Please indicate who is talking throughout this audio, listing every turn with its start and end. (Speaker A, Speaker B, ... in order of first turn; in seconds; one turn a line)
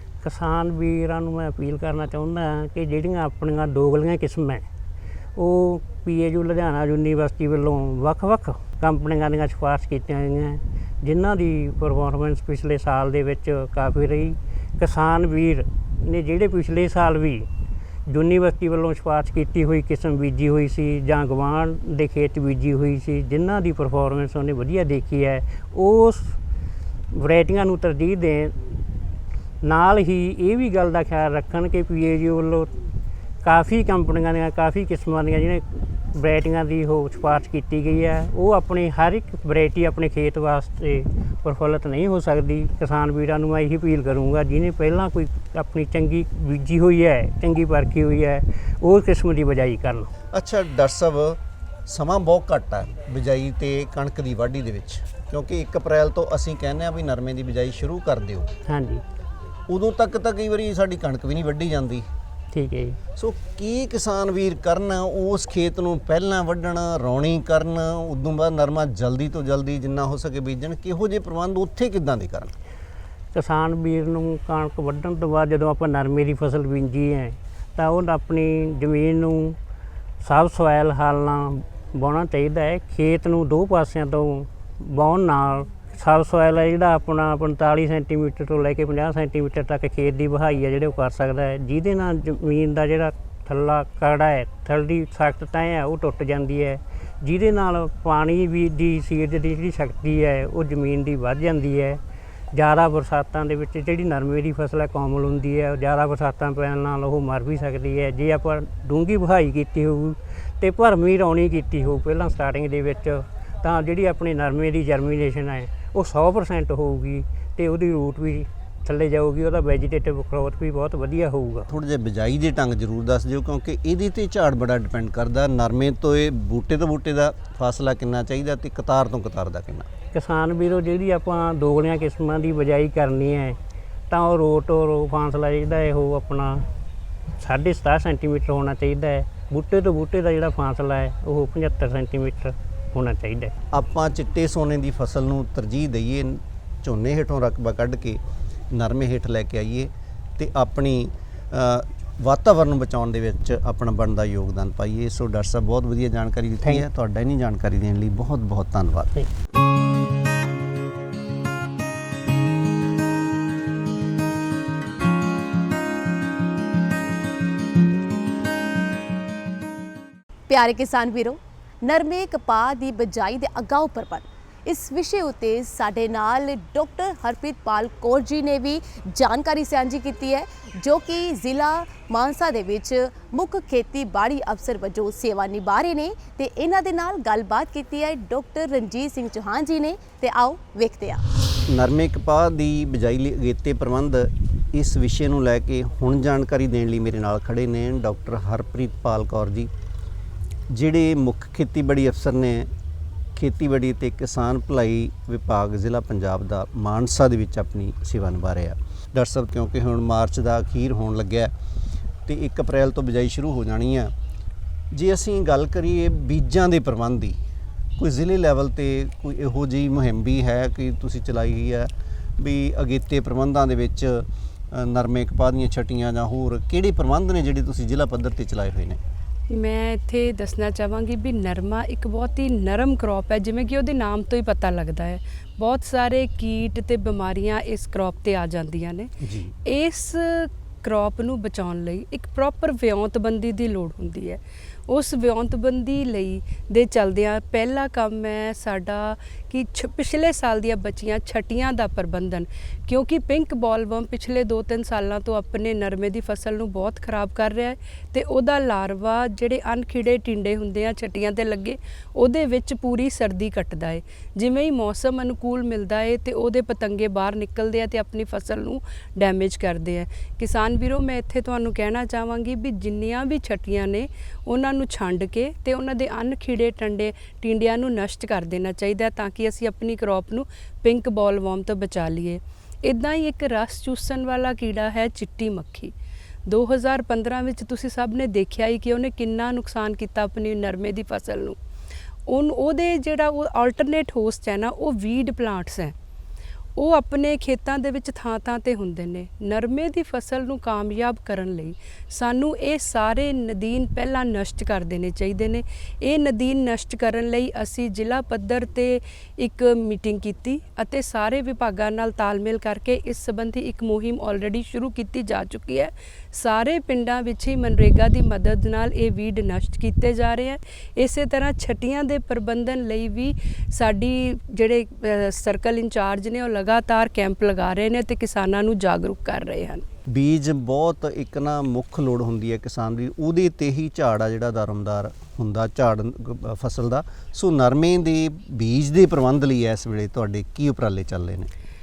Speaker A: 0.2-4.7
Speaker A: 5.4-17.5
Speaker A: 18.1-26.4
Speaker A: 27.1-28.6
Speaker A: 29.6-32.7
Speaker A: 33.4-50.1
Speaker B: 50.3-58.5
Speaker A: 58.7-59.0
Speaker B: 59.7-62.1
Speaker A: 62.5-63.0
Speaker B: 63.2-72.5
Speaker A: 73.3-79.6
Speaker A: 80.2-102.0
Speaker A: 102.5-121.7
Speaker B: 121.7-129.9
Speaker A: 130.1-133.6
Speaker A: 134.1-136.7
Speaker A: 137.4-143.5
Speaker B: 143.7-148.2
Speaker B: 148.7-159.2
Speaker C: 170.5-191.2
Speaker B: 191.7-199.7
Speaker B: 200.7-202.7
Speaker B: 203.4-211.5
Speaker B: 212.3-214.1
Speaker B: 214.9-217.4
Speaker B: 218.0-229.0
Speaker D: 229.5-239.1
Speaker B: 239.2-239.5
Speaker D: 239.7-285.9
Speaker D: 286.5-291.6
Speaker D: 292.3-296.0
Speaker D: 296.8-329.8
Speaker B: 330.1-341.5